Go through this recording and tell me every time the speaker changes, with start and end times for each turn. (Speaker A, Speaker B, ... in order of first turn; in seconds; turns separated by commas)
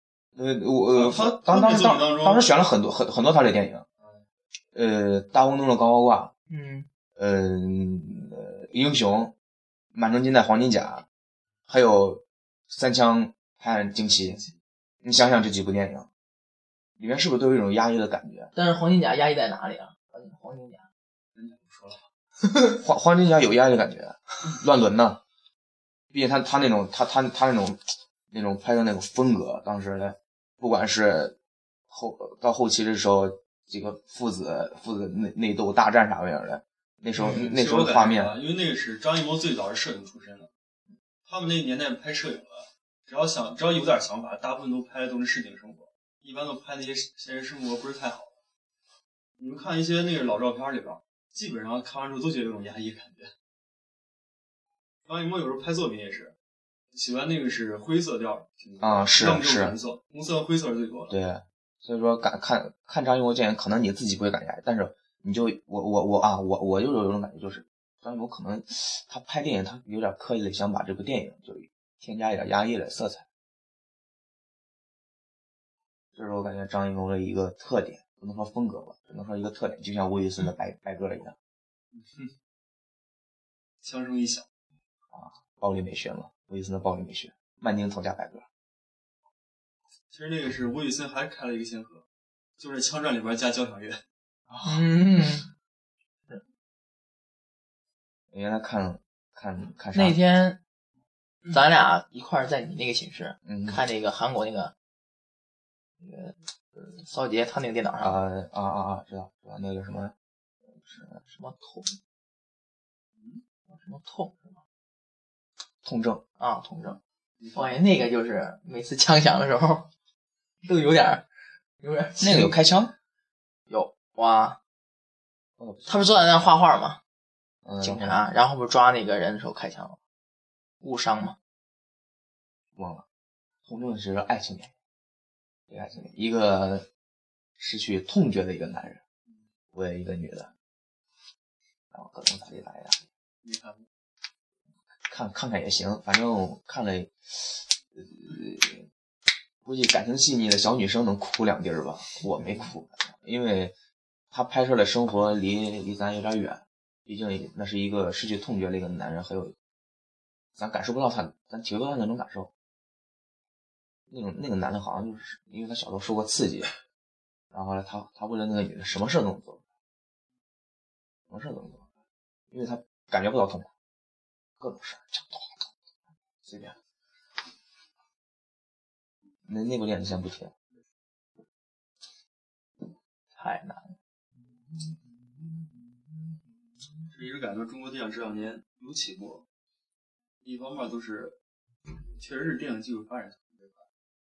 Speaker A: 0.4-3.9, Speaker B: 0.9-2.5, Speaker A: 4.8-6.3, Speaker C: 6.5-6.9, Speaker A: 7.2-9.3, Speaker A: 9.9-11.1, Speaker A: 11.7-14.4, Speaker B: 14.1-14.5, Speaker A: 15.0-16.1, Speaker A: 17.0-18.5, Speaker C: 18.5-20.9, Speaker B: 21.4-22.0, Speaker A: 22.8-25.2, Speaker A: 26.1-31.4, Speaker A: 31.9-38.4, Speaker C: 37.2-37.5, Speaker B: 37.4-40.5, Speaker B: 41.3-48.3, Speaker B: 49.4-53.3, Speaker B: 55.1-56.3, Speaker B: 56.9-61.1, Speaker A: 58.8-59.8, Speaker A: 61.1-73.3, Speaker A: 76.2-81.3, Speaker B: 81.9-82.3, Speaker B: 83.8-84.5, Speaker A: 85.1-88.5, Speaker B: 90.1-92.0, Speaker B: 92.6-94.0, Speaker A: 94.5-94.9, Speaker C: 94.7-95.5, Speaker A: 98.3-100.2, Speaker C: 99.9-100.6, Speaker C: 101.5-104.7, Speaker A: 103.5-103.8, Speaker C: 106.0-108.2, Speaker A: 108.0-110.1, Speaker A: 110.8-111.2, Speaker C: 111.3-112.0, Speaker C: 113.7-114.6, Speaker A: 115.8-116.2, Speaker C: 116.4-117.0, Speaker B: 117.4-117.8, Speaker C: 117.5-119.9, Speaker C: 120.6-121.2, Speaker C: 121.8-122.6, Speaker A: 122.2-122.9, Speaker C: 123.7-124.6, Speaker A: 125.6-126.0, Speaker C: 125.9-127.0, Speaker A: 127.6-128.2, Speaker C: 127.8-130.0, Speaker C: 130.8-131.4, Speaker A: 132.8-133.1, Speaker A: 133.7-134.7, Speaker A: 135.7-136.9, Speaker A: 137.6-139.0, Speaker A: 139.7-140.5, Speaker A: 141.9-143.1, Speaker B: 143.4-143.9, Speaker A: 145.1-148.9, Speaker A: 149.7-153.7, Speaker A: 154.3-159.5, Speaker A: 160.6-162.5, Speaker A: 164.1-166.7, Speaker A: 167.5-169.6, Speaker A: 171.3-171.8, Speaker A: 172.5-173.7, Speaker A: 174.6-175.6, Speaker A: 176.4-176.8, Speaker A: 179.5-180.5, Speaker C: 183.3-183.9, Speaker C: 185.4-185.7, Speaker B: 187.1-189.4, Speaker B: 190.4-191.4, Speaker B: 192.2-193.8